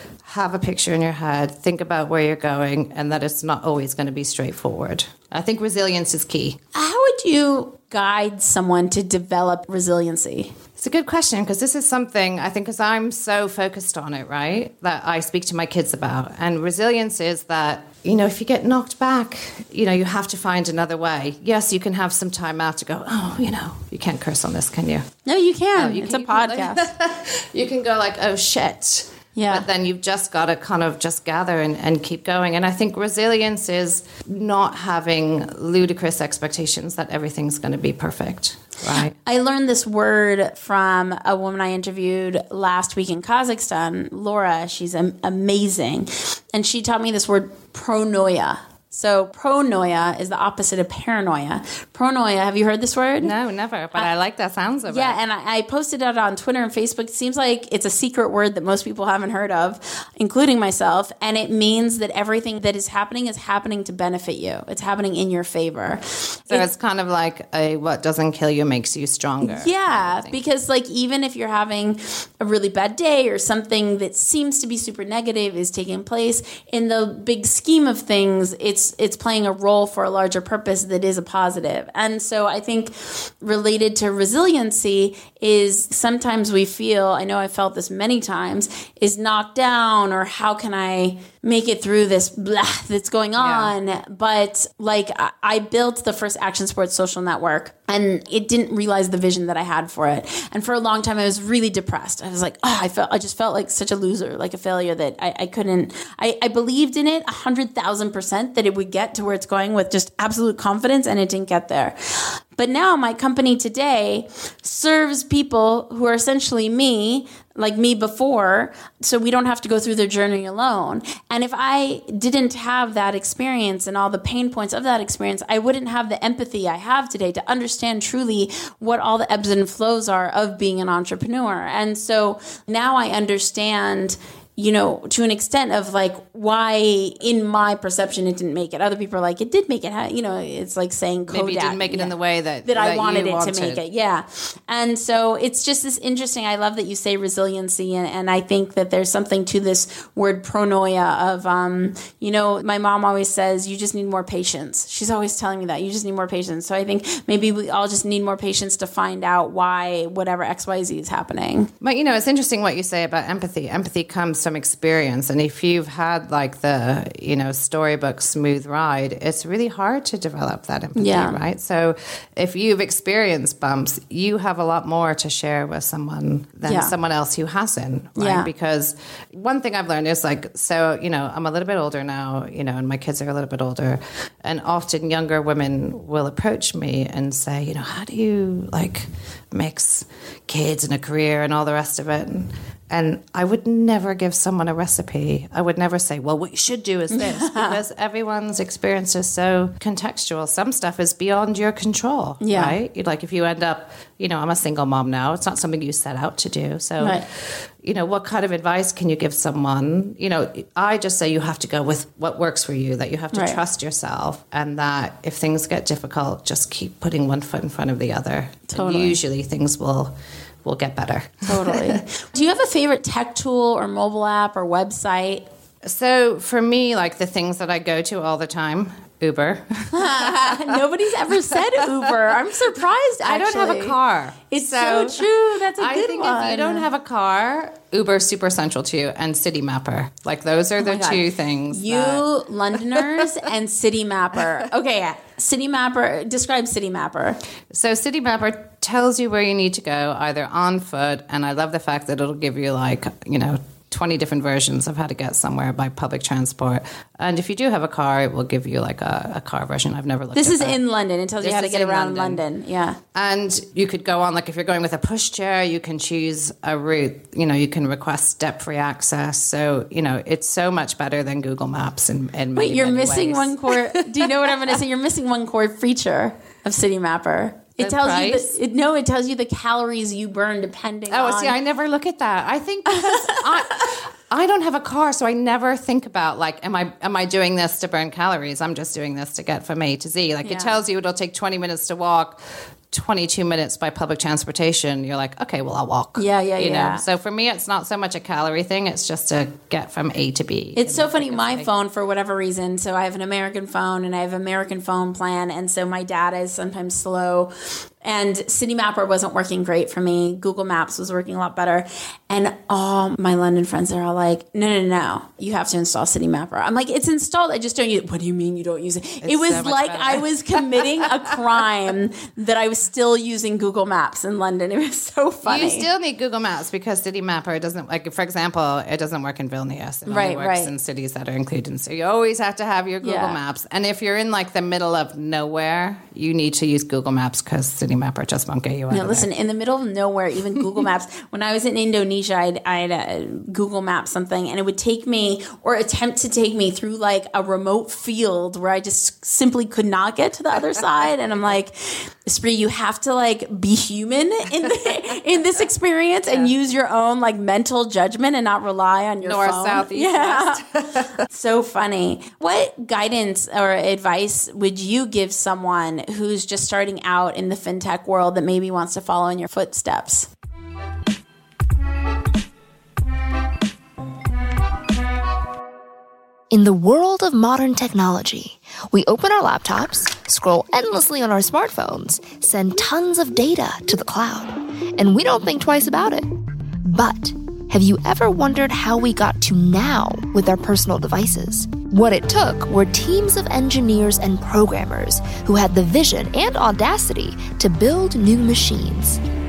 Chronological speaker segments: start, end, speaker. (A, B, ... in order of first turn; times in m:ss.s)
0:00.2-0:06.6 A
0:06.7-0:10.5 B
0:10.8-0:25.1 A
0:25.2-0:26.9 B
0:25.7-0:39.2 A
0:29.4-0:29.6 B
0:39.2-0:53.3 B
0:53.2-0:55.2 A
0:54.9-1:06.7 B
1:06.5-1:10.4 A
1:09.4-2:22.1 B
1:33.4-1:33.7 A
2:21.3-2:23.8 A
2:22.6-2:41.7 B
2:41.8-3:27.2 A
2:50.9-2:51.4 B
2:56.6-2:56.9 B
2:58.2-2:58.5 B
3:17.1-3:17.8 B
3:22.4-3:22.8 B
3:27.8-3:40.1 A
3:33.3-3:33.6 B
3:38.7-3:39.2 B
3:40.6-3:42.0 A
3:41.4-3:45.4 B
3:45.8-3:50.7 A
3:49.9-3:54.0 B
3:53.2-4:02.2 A
3:54.5-3:56.8 B
4:00.8-4:07.4 B
4:07.7-4:20.8 A
4:20.3-4:23.0 B
4:21.4-4:22.4 A
4:23.1-4:34.3 A
4:32.5-4:41.6 B
4:37.8-4:38.5 A
4:41.1-4:52.4 A
4:43.1-4:43.4 B
4:50.4-4:50.8 B
4:52.9-5:01.7 A
4:56.2-4:57.0 B
5:00.8-5:07.5 B
5:08.0-5:25.9 B
5:19.2-5:20.8 A
5:25.4-5:39.3 A
5:30.1-5:30.7 B
5:33.0-5:33.4 B
5:38.9-6:10.3 B
5:59.2-6:01.2 A
6:16.5-6:26.2 C
6:26.8-6:39.2 C